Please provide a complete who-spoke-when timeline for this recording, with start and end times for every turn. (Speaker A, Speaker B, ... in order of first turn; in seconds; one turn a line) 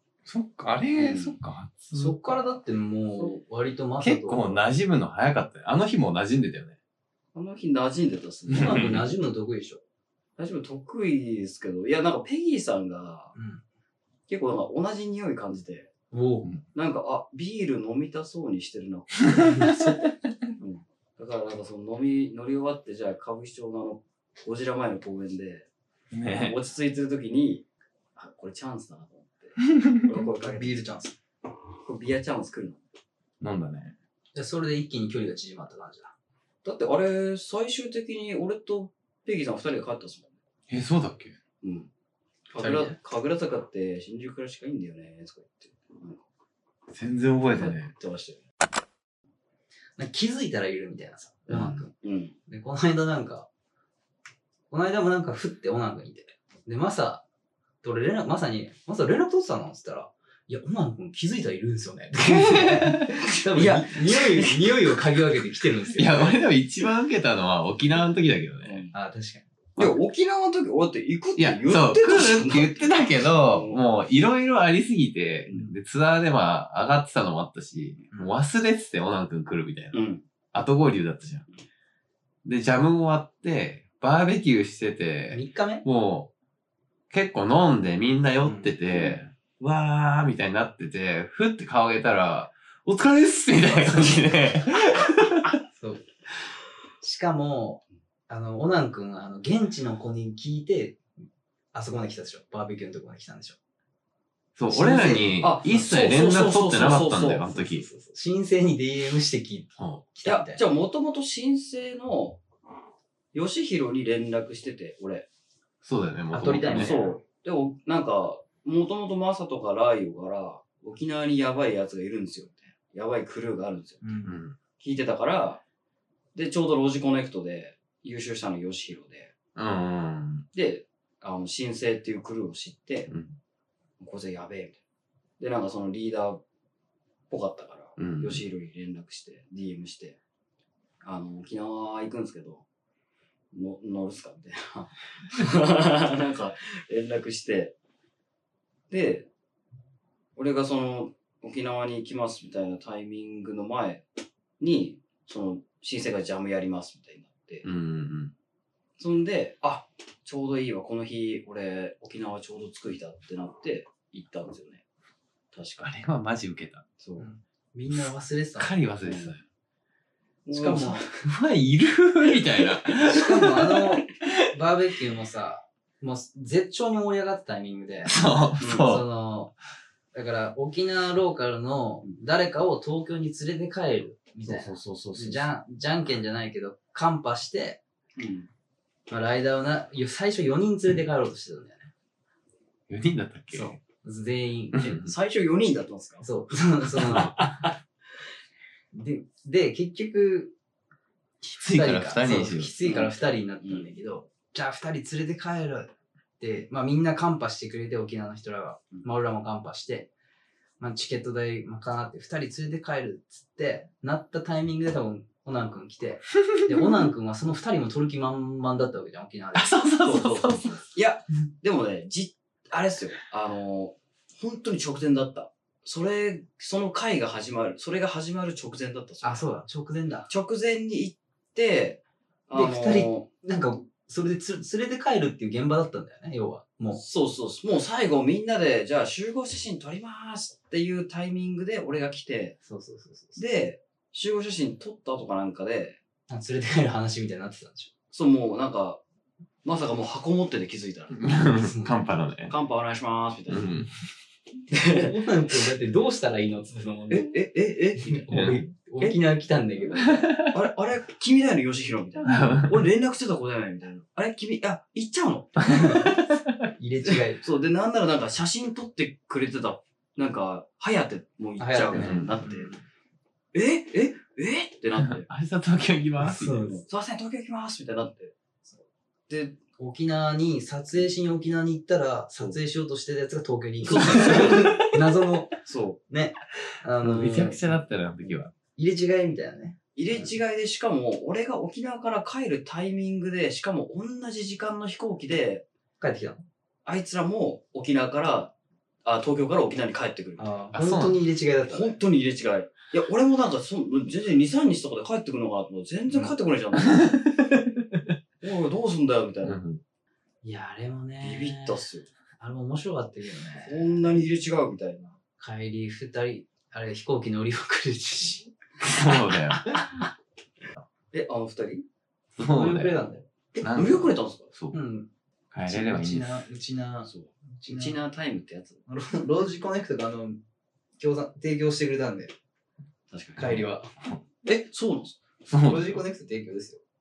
Speaker A: 0.2-2.4
Speaker B: 0.9-1.4
Speaker C: 1.9-4.6
Speaker A: 4.0-6.8
Speaker B: 7.3-9.0
Speaker A: 8.5-9.0
Speaker C: 8.5-9.8
Speaker B: 10.4-13.3
Speaker C: 13.3-13.6
Speaker B: 14.3-15.9
Speaker C: 16.1-16.5
Speaker B: 16.7-19.7
Speaker A: 19.2-20.5
Speaker C: 19.3-20.0
Speaker B: 20.6-25.7
Speaker A: 26.1-26.6
Speaker B: 26.3-30.9
Speaker A: 29.7-30.1
Speaker C: 30.4-31.1
Speaker B: 31.8-32.8
Speaker A: 33.4-33.9
Speaker C: 34.3-36.1
Speaker B: 36.6-40.3
Speaker A: 40.7-41.4
Speaker B: 41.6-41.9
Speaker B: 42.5-46.2
Speaker C: 42.6-43.0
Speaker A: 46.9-47.9
Speaker B: 47.5-48.4
Speaker C: 50.0-51.9
Speaker B: 51.5-52.3
Speaker C: 52.5-53.5
Speaker C: 54.7-57.2
Speaker C: 57.8-66.4
Speaker A: 62.2-63.2
Speaker B: 63.5-65.0
Speaker A: 65.9-68.8
Speaker B: 68.6-68.9
Speaker C: 68.9-69.5
Speaker B: 69.8-73.8
Speaker A: 71.4-80.0
Speaker B: 75.5-75.7
Speaker B: 79.9-80.2
Speaker A: 80.5-81.4
Speaker A: 82.4-86.3
Speaker C: 85.3-85.8
Speaker A: 87.1-95.5
Speaker C: 88.4-88.7
Speaker B: 88.9-89.2
Speaker C: 93.6-94.3
Speaker C: 95.7-96.0
Speaker C: 97.0-101.0
Speaker C: 101.7-103.6
Speaker A: 104.5-107.8
Speaker C: 104.7-105.4
Speaker B: 105.4-107.5
Speaker C: 107.5-110.6
Speaker A: 109.8-110.0
Speaker B: 110.2-112.4
Speaker B: 113.3-115.3
Speaker A: 115.8-117.0
Speaker C: 116.3-117.2
Speaker B: 116.7-124.0
Speaker C: 124.0-124.4
Speaker A: 124.2-124.6
Speaker B: 124.8-125.6
Speaker B: 126.3-129.3
Speaker A: 129.6-130.4
Speaker B: 130.5-133.1
Speaker A: 133.1-133.4
Speaker B: 134.0-134.8
Speaker B: 135.4-136.4
Speaker B: 137.3-140.2
Speaker A: 138.0-138.4
Speaker B: 141.0-142.6
Speaker B: 143.5-147.7
Speaker B: 148.9-149.3
Speaker B: 150.3-154.0
Speaker B: 154.6-157.7
Speaker A: 157.6-158.3
Speaker B: 159.0-164.8
Speaker B: 165.5-165.9
Speaker A: 165.8-166.8
Speaker B: 167.0-167.3
Speaker C: 167.2-168.7
Speaker A: 168.6-169.4
Speaker B: 169.0-169.4
Speaker B: 170.4-171.2
Speaker C: 170.5-171.0
Speaker A: 171.2-174.5
Speaker C: 173.0-179.5
Speaker A: 178.1-179.0
Speaker B: 178.6-178.9
Speaker C: 180.1-187.8
Speaker B: 184.4-185.5
Speaker B: 188.2-188.5
Speaker C: 189.1-191.9
Speaker A: 192.9-193.8
Speaker C: 193.5-195.1
Speaker A: 194.7-195.1
Speaker B: 195.0-196.2
Speaker C: 196.2-197.7
Speaker B: 197.0-197.7
Speaker C: 198.9-200.5
Speaker C: 201.4-210.1
Speaker A: 201.5-202.7
Speaker B: 202.8-203.9
Speaker C: 210.8-219.7
Speaker A: 219.5-220.8
Speaker B: 220.0-229.4
Speaker C: 229.2-230.3
Speaker B: 230.3-233.2
Speaker C: 232.5-237.0
Speaker B: 236.9-242.6
Speaker C: 242.6-243.4
Speaker B: 243.4-246.0
Speaker C: 246.3-247.9
Speaker B: 248.1-249.0
Speaker B: 249.6-251.2
Speaker A: 251.1-252.5
Speaker C: 251.5-251.9
Speaker B: 252.5-253.7
Speaker A: 253.5-253.9
Speaker B: 254.7-255.1
Speaker C: 254.8-257.3
Speaker B: 257.1-258.3
Speaker C: 258.0-260.3
Speaker A: 258.3-258.6
Speaker A: 260.1-260.5
Speaker B: 260.5-266.1
Speaker A: 262.2-262.8
Speaker C: 265.6-266.2
Speaker A: 265.8-266.6
Speaker C: 266.8-267.4
Speaker B: 267.1-272.7
Speaker C: 271.6-272.8
Speaker A: 271.9-272.5
Speaker B: 273.5-275.3
Speaker A: 275.0-276.6
Speaker C: 276.2-276.8
Speaker B: 276.7-278.3
Speaker B: 279.3-279.6
Speaker C: 279.8-285.5
Speaker B: 283.9-284.8
Speaker A: 284.2-284.8
Speaker B: 285.6-286.0
Speaker C: 286.1-287.7
Speaker A: 287.0-288.5
Speaker C: 288.7-290.3
Speaker B: 289.9-295.6
Speaker C: 296.0-296.4
Speaker B: 296.8-298.5
Speaker B: 299.0-300.5
Speaker C: 300.4-301.9
Speaker A: 300.7-301.2
Speaker B: 301.7-307.2
Speaker A: 306.9-308.1
Speaker B: 308.4-309.6
Speaker A: 309.4-309.8
Speaker C: 310.4-311.8
Speaker B: 311.2-312.1
Speaker C: 312.4-314.2
Speaker B: 313.6-315.2
Speaker C: 315.4-318.5
Speaker A: 318.8-319.8
Speaker B: 321.1-321.8
Speaker A: 322.4-323.0
Speaker C: 322.4-323.3
Speaker B: 323.5-324.5
Speaker A: 323.6-324.8
Speaker C: 324.7-328.0
Speaker A: 325.5-326.4
Speaker B: 327.1-328.8
Speaker C: 328.9-330.4
Speaker C: 331.0-332.3
Speaker B: 333.1-333.5
Speaker C: 333.4-333.9
Speaker A: 333.4-334.2
Speaker B: 334.4-335.2
Speaker A: 335.5-336.0
Speaker C: 335.5-336.8